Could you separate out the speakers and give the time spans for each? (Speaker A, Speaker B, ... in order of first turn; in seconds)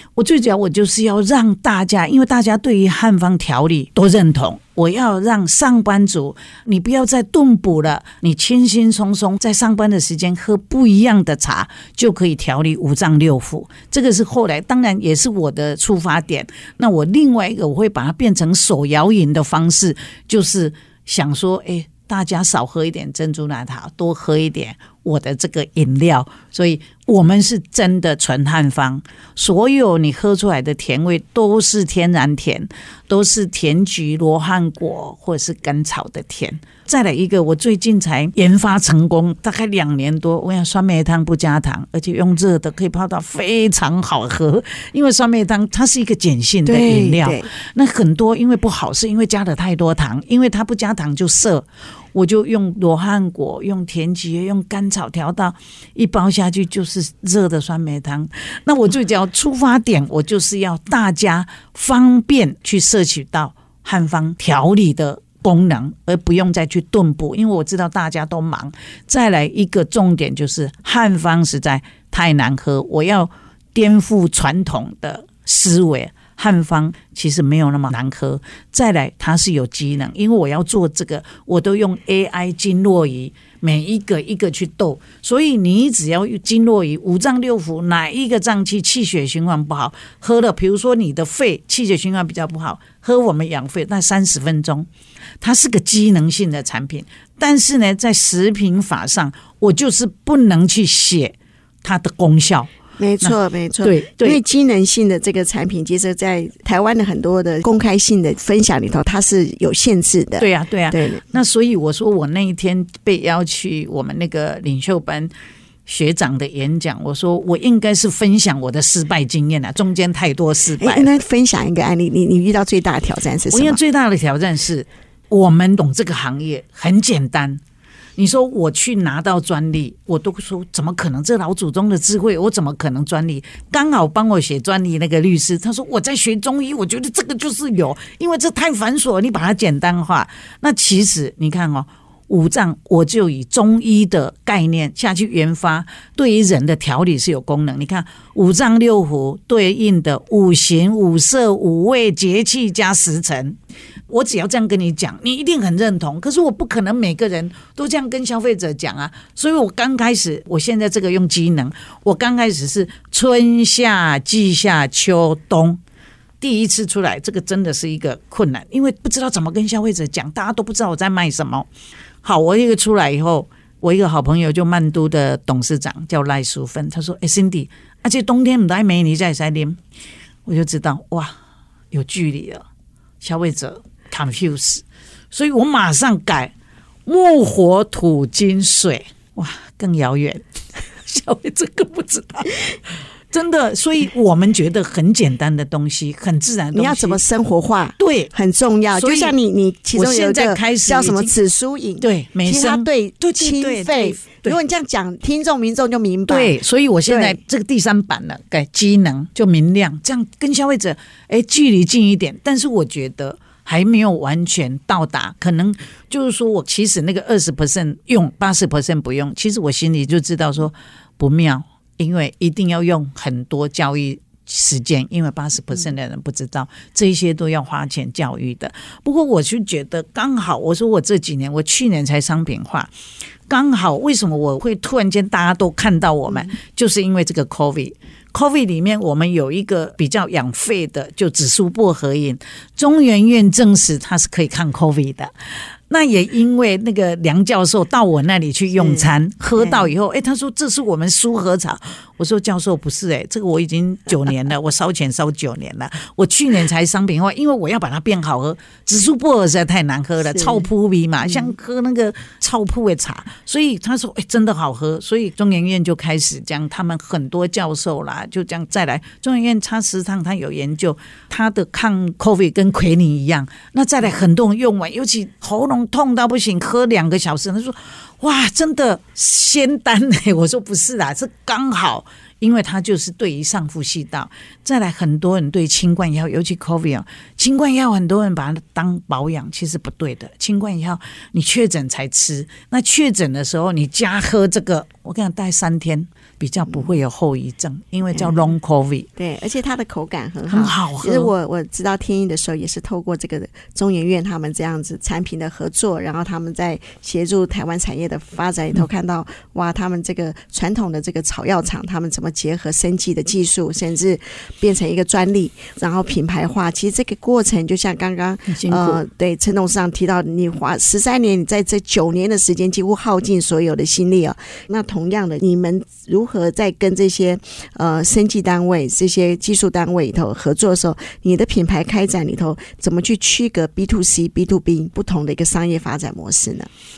Speaker A: 0.2-94.9, 95.4-104.4, 110.4-115.3, 115.9-121.1, 123.5-127.6, 128.2-153.6, 154.1-165.8, 166.4-171.7, 172.2-179.8, 180.5-181.4, 181.9-182.7, 183.2-186.5, 187.1-192.8, 193.3-197.2, 198.0-198.3, 198.9-199.4, 199.9-201.3, 202.0-204.6, 206.3-232.9, 233.5-245.3, 245.9-299.1, 300.5-301.3, 318.5-319.0
Speaker B: 46.6-47.5, 103.0-111.2, 120.8-123.8, 196.7-206.6, 207.1-207.4, 248.8-249.1, 249.6-249.9, 260.3-260.7, 299.2-336.7